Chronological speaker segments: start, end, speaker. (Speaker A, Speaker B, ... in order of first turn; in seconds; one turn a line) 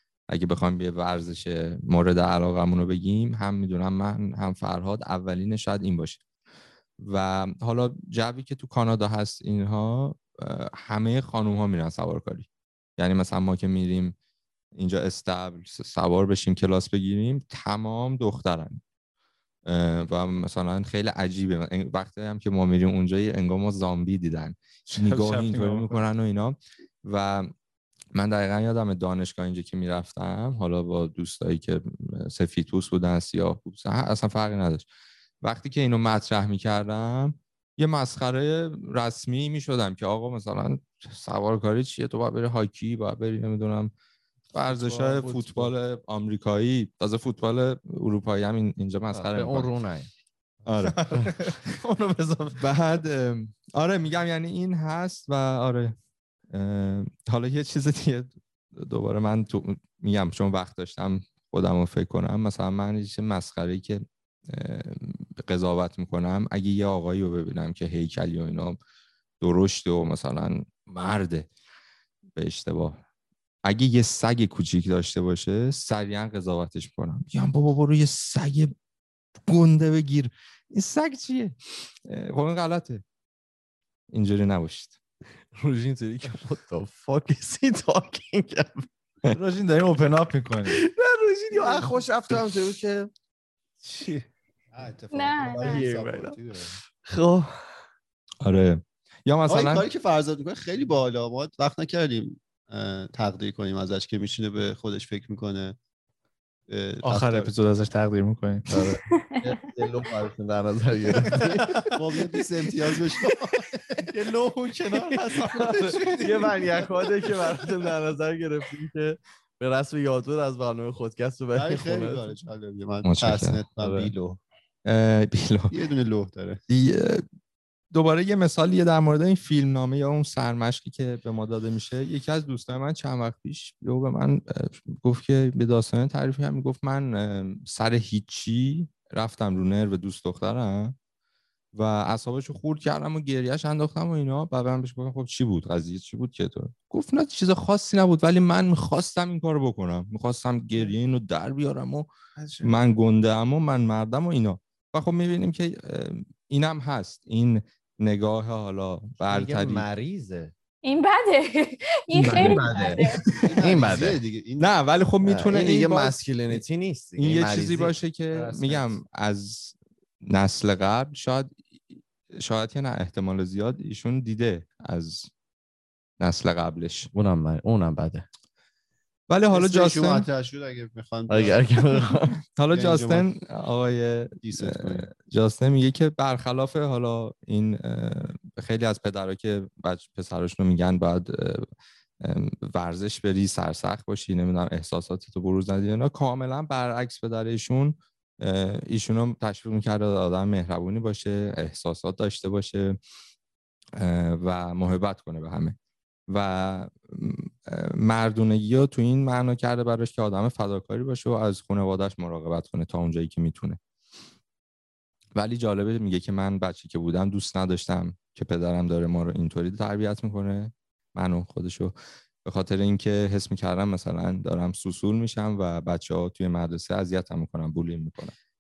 Speaker A: 0.3-6.2
Speaker A: 7.0-14.2
Speaker A: 14.8-18.8
Speaker A: 19.6-27.5
Speaker B: 24.9-26.0
Speaker A: 28.1-34.9
Speaker A: 35.4-43.9
Speaker A: 44.5-49.7
Speaker B: 44.7-45.5
Speaker C: 49.1-50.1
Speaker A: 50.7-51.4
Speaker B: 50.8-52.7
Speaker A: 52.6-56.0
Speaker A: 56.5-68.8
Speaker A: 69.4-71.5
Speaker A: 72.3-73.0
Speaker A: 73.6-78.7
Speaker A: 79.5-83.0
Speaker A: 84.1-85.0
Speaker C: 85.5-88.9
Speaker B: 89.3-90.8
Speaker C: 90.7-93.1
Speaker B: 93.8-94.3
Speaker D: 94.7-96.8
Speaker E: 95.1-95.9
Speaker B: 95.6-96.3
Speaker C: 97.0-97.7
Speaker A: 98.4-99.9
Speaker D: 99.5-105.8
Speaker D: 106.7-107.5
Speaker B: 107.0-109.0
Speaker C: 108.7-111.7
Speaker E: 109.1-109.5
Speaker B: 111.2-112.0
Speaker D: 111.4-113.9
Speaker B: 113.2-117.7
Speaker C: 114.9-122.3
Speaker D: 121.6-124.4
Speaker A: 123.0-124.1
Speaker A: 124.8-125.8
Speaker D: 125.7-126.6
Speaker A: 126.7-127.2
Speaker A: 127.9-141.0
Speaker A: 141.7-152.1
Speaker C: 152.4-152.7
Speaker A: 152.6-159.9
Speaker C: 159.2-160.5
Speaker E: 160.8-163.5
Speaker C: 162.2-163.1
Speaker D: 163.4-164.7
Speaker C: 163.6-164.2
Speaker A: 164.6-166.6
Speaker C: 165.2-167.9
Speaker A: 167.2-175.3
Speaker B: 168.4-168.9
Speaker A: 176.2-177.1
Speaker C: 177.1-178.3
Speaker A: 179.3-180.3
Speaker D: 179.5-182.0
Speaker C: 181.3-182.4
Speaker A: 182.6-191.7
Speaker D: 182.7-183.2
Speaker D: 184.4-185.1
Speaker A: 192.2-203.0
Speaker A: 204.0-205.8
Speaker A: 206.3-213.8
Speaker A: 215.3-228.3